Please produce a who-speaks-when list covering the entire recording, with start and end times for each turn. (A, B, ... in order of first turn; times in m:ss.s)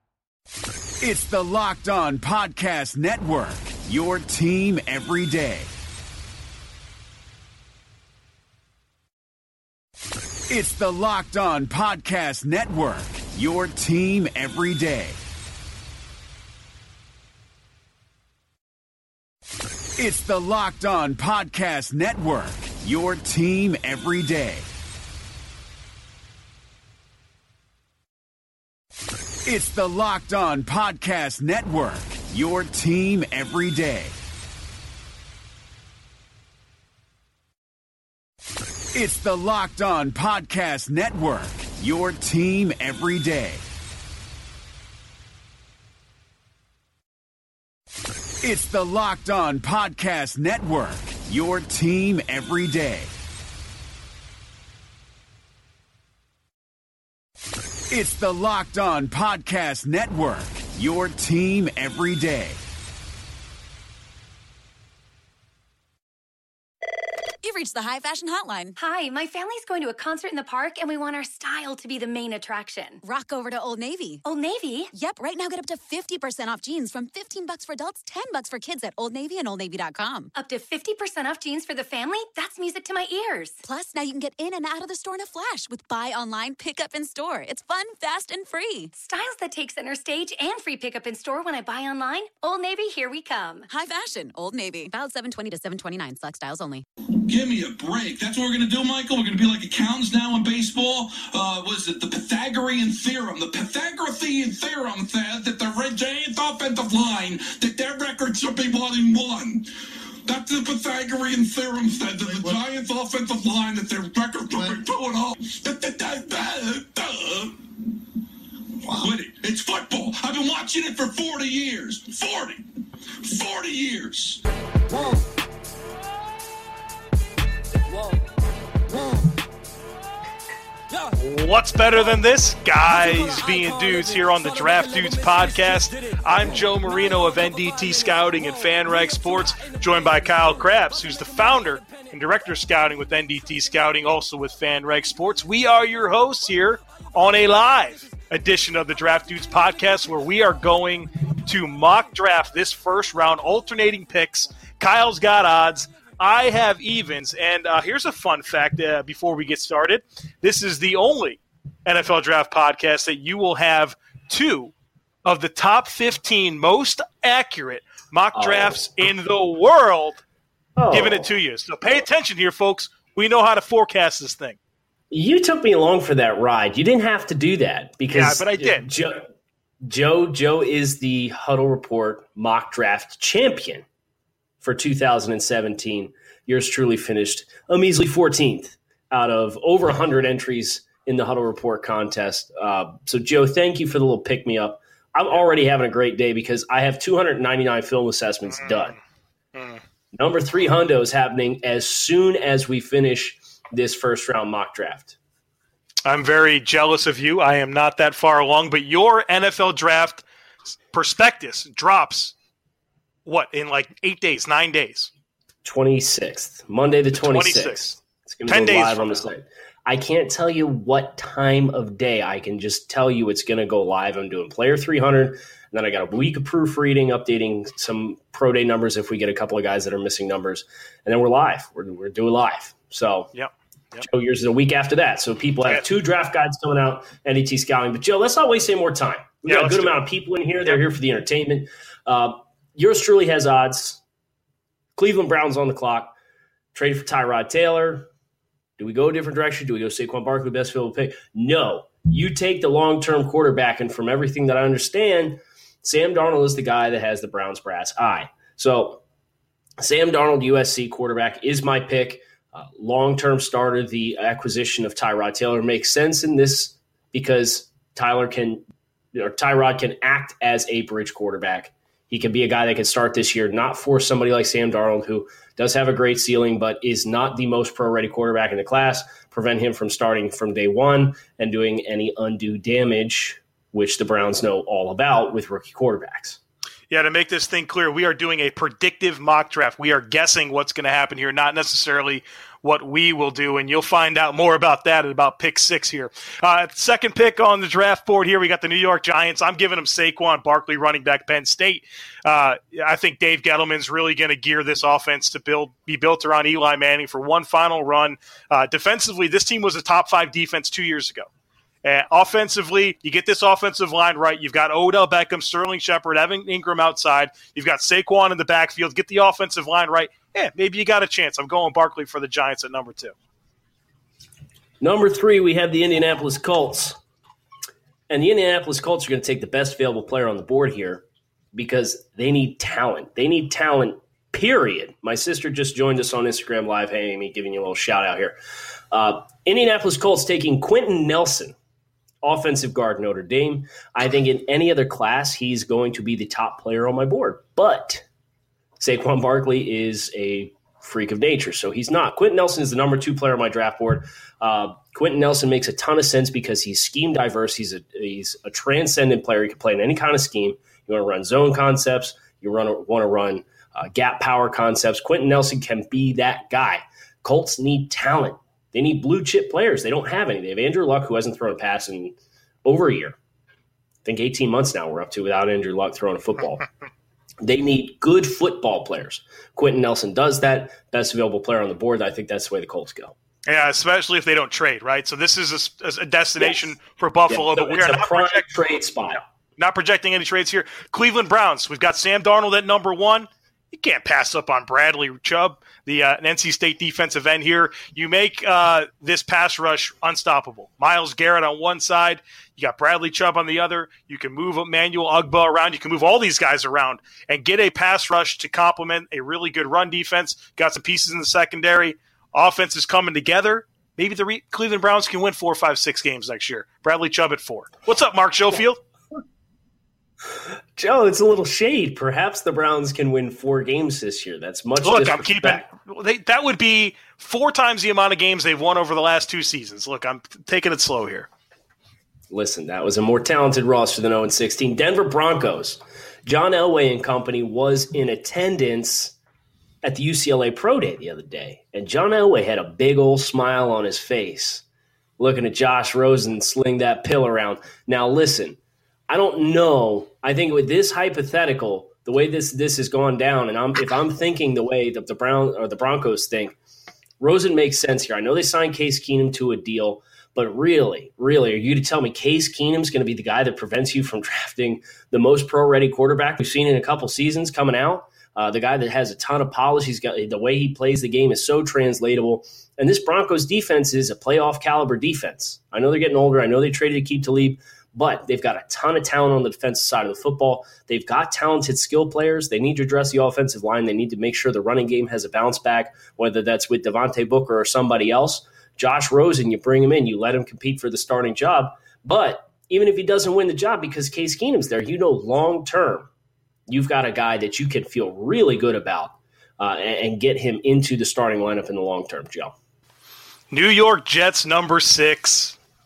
0:01.0-0:05.7 A
0:10.5-0:15.2 A
0:20.0-0:24.7 A
0:29.5-0:34.2 A
0:38.9-0:43.6 A
0:48.4-0:53.1 A
0:57.9-1:02.6 A
1:07.4-1:08.8 B
1:08.8-1:13.0 C
1:13.0-1:14.2 B
1:14.2-1:14.9 C
1:14.9-1:20.3 B
1:20.4-1:23.6 C
1:23.6-1:28.9 B
1:29.0-1:33.7 C
1:33.7-1:36.8 B
1:37.3-1:49.7 D
1:50.2-1:57.7 D
1:58.8-2:02.6 D
2:03.2-2:04.4 D
2:11.2-2:44.7 E
2:45.2-2:50.2 E
2:48.4-2:48.8 F
2:50.8-2:51.3 F
2:50.9-2:54.6 E
2:55.1-2:59.3 F
2:58.1-2:58.9 E
2:59.8-3:03.8 F
3:04.6-3:19.0 F
3:18.7-3:19.0 E
3:19.6-3:19.8 E
3:20.2-3:25.2 F
3:26.0-3:30.2 E
3:30.9-3:32.4 E
3:33.3-3:35.1 E
3:35.6-3:53.3 F
3:37.1-3:38.0 E
3:38.5-3:39.3 E
3:53.3-3:54.0 E
3:54.0-4:04.0 F
3:59.5-4:00.0 E
4:05.0-4:06.1 F
4:06.7-4:08.1 F
4:08.8-4:19.0 F
4:19.8-4:28.6 F
4:29.2-4:46.4 F
4:46.9-5:11.3 E
5:11.8-5:23.1 E
5:24.8-5:27.0 F
5:28.1-5:38.4 F
5:38.9-5:41.6 F
5:42.2-5:48.0 F
5:48.8-6:13.2 F
6:14.0-6:16.6 F
6:17.4-6:23.1 F
6:23.5-6:28.5 E
6:26.4-6:26.7 F
6:27.3-6:29.2 F
6:29.6-6:58.8 E
7:00.8-7:05.6 F
7:04.8-7:11.3 E
7:12.3-7:19.2 F
7:19.8-7:24.6 F
7:25.2-7:28.6 F
7:29.1-7:36.6 F
7:37.2-8:16.1 F
8:16.7-8:22.5 F
8:23.5-8:25.6 E